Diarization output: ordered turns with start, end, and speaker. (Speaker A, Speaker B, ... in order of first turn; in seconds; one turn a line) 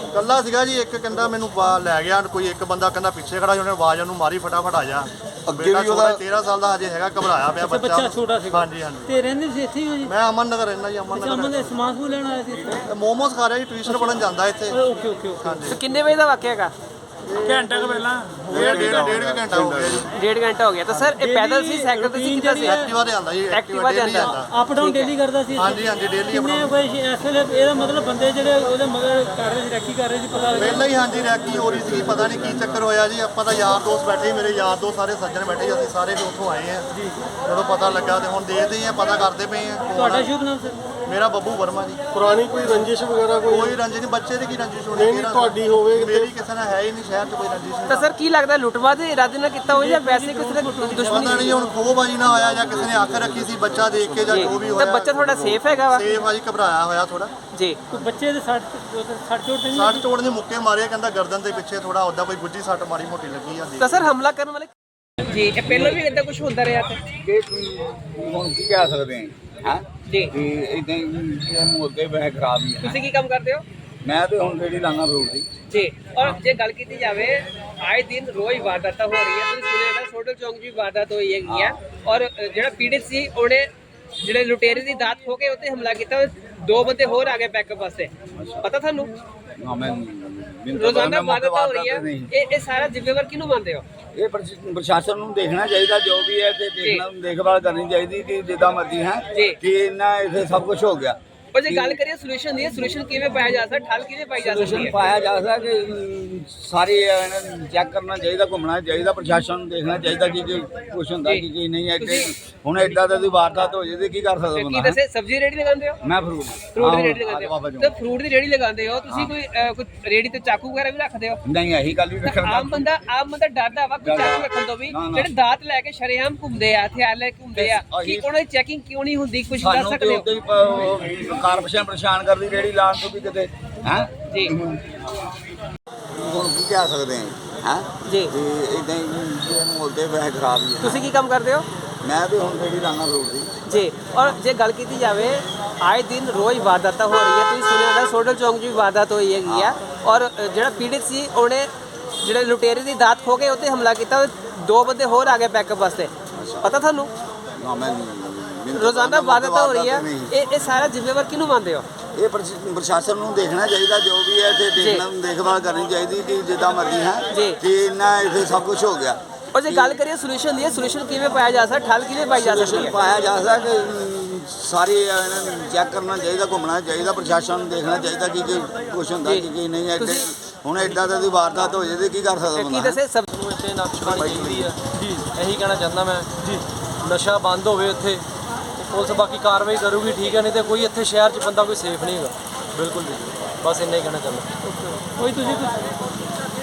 Speaker A: 0.1-9.2
Speaker B: 5.5-6.2
Speaker C: 7.6-10.1
Speaker A: 10.0-11.8
Speaker C: 11.1-12.9
Speaker A: 12.8-14.8
Speaker C: 13.9-15.7
Speaker A: 15.4-15.8
Speaker D: 15.7-16.7
Speaker A: 17.3-20.1
Speaker C: 17.5-19.0
Speaker B: 18.5-20.1
Speaker D: 20.1-22.8
Speaker C: 21.2-22.9
Speaker A: 22.6-24.5
Speaker D: 23.5-25.1
Speaker C: 24.2-31.0
Speaker A: 25.6-26.7
Speaker A: 30.5-36.9
Speaker B: 31.1-32.8
Speaker A: 37.4-40.3
Speaker C: 39.9-40.8
Speaker A: 41.1-42.9
Speaker B: 42.1-43.8
Speaker A: 43.5-48.1
Speaker B: 44.9-46.3
Speaker D: 47.9-51.6
Speaker C: 49.7-51.6
Speaker A: 51.0-57.3
Speaker B: 52.2-55.7
Speaker D: 54.3-56.0
Speaker D: 57.5-57.8
Speaker C: 57.9-60.0
Speaker A: 59.7-64.1
Speaker D: 63.8-64.7
Speaker D: 65.3-67.0
Speaker E: 65.7-66.0
Speaker E: 67.2-73.0
Speaker D: 70.1-70.3
Speaker D: 72.8-73.6
Speaker E: 74.0-75.5
Speaker D: 75.7-83.7
Speaker E: 81.5-81.8
Speaker D: 84.2-89.1
Speaker E: 88.3-88.7
Speaker E: 89.6-92.3
Speaker D: 90.8-93.8
Speaker E: 94.2-102.0
Speaker D: 101.5-105.0
Speaker E: 104.4-115.0
Speaker D: 112.0-112.3
Speaker D: 114.5-116.0
Speaker E: 116.0-117.9
Speaker D: 116.7-121.4
Speaker E: 119.1-119.3
Speaker E: 121.5-122.9
Speaker D: 122.2-130.3
Speaker E: 124.0-125.3
Speaker E: 127.5-128.3
Speaker E: 129.6-135.0
Speaker D: 134.3-134.6
Speaker E: 136.1-141.1
Speaker D: 138.1-138.3
Speaker D: 140.8-141.7
Speaker E: 142.0-143.5
Speaker D: 143.7-157.1
Speaker E: 149.4-149.8
Speaker E: 156.3-156.7
Speaker E: 157.6-160.4
Speaker D: 158.7-161.9
Speaker E: 162.2-170.0
Speaker D: 164.8-165.1
Speaker D: 167.3-167.6
Speaker D: 169.5-173.0
Speaker E: 172.3-183.0
Speaker D: 179.2-180.3
Speaker D: 182.6-183.3
Speaker F: 183.3-186.3
Speaker E: 184.0-184.7
Speaker C: 184.9-185.2
Speaker F: 187.0-188.2
Speaker F: 188.8-194.6
Speaker C: 194.9-195.9